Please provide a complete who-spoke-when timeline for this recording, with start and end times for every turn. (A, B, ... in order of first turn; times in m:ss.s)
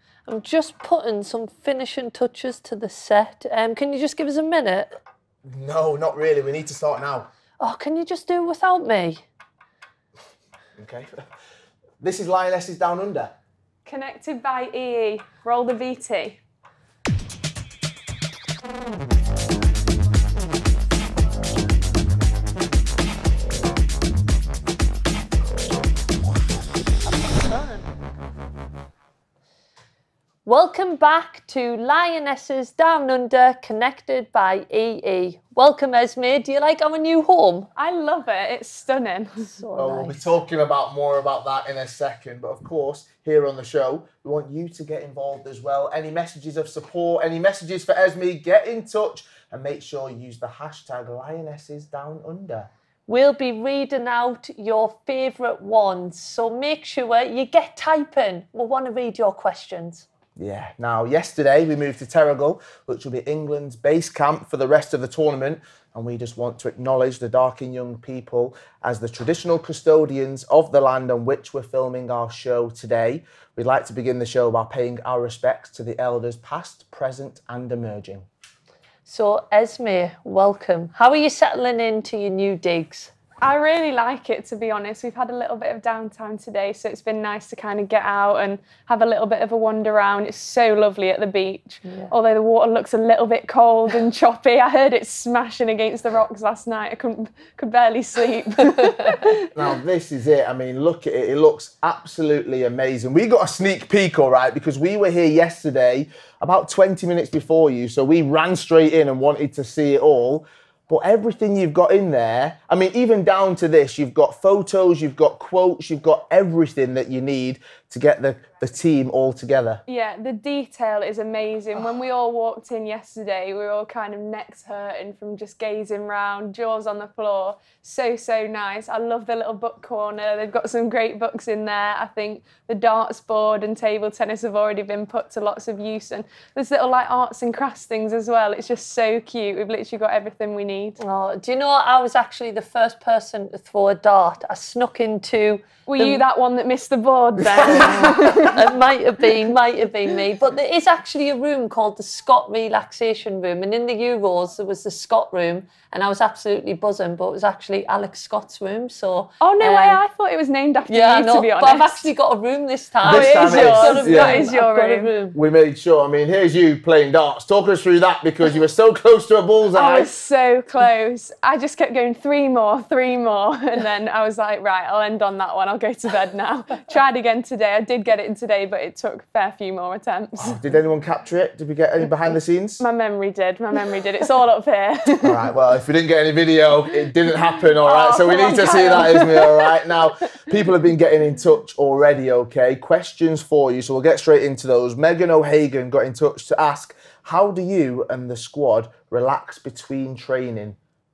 0:00.2-0:04.9 A
0:05.4-0:07.3 B
0:07.6-0:09.2 A
0:10.8-0:11.1 B
0:12.0-0:13.3 B
0:13.8-0:16.4 C
0:27.1-0:27.9 A
0:30.4-0:37.7 A
0:37.8-0:39.5 C
0:39.4-0:40.3 A
0:39.8-0:52.7 B
0:53.1-1:00.0 A
1:00.4-1:18.2 B
1:19.0-1:23.1 A
1:23.4-1:39.4 C
1:31.8-1:32.1 A
1:39.5-1:59.8 B
1:59.9-2:21.0 C
2:21.0-2:26.2 A
2:25.8-2:28.7 C
2:27.6-2:40.0 A
2:39.4-2:42.1 C
2:40.9-2:45.4 A
2:43.0-2:44.4 B
2:43.0-2:45.1 C
2:45.3-2:50.1 B
2:49.7-3:00.6 C
3:00.4-3:02.8 B
3:02.8-3:05.4 C
3:05.2-3:20.8 B
3:07.8-3:09.7 C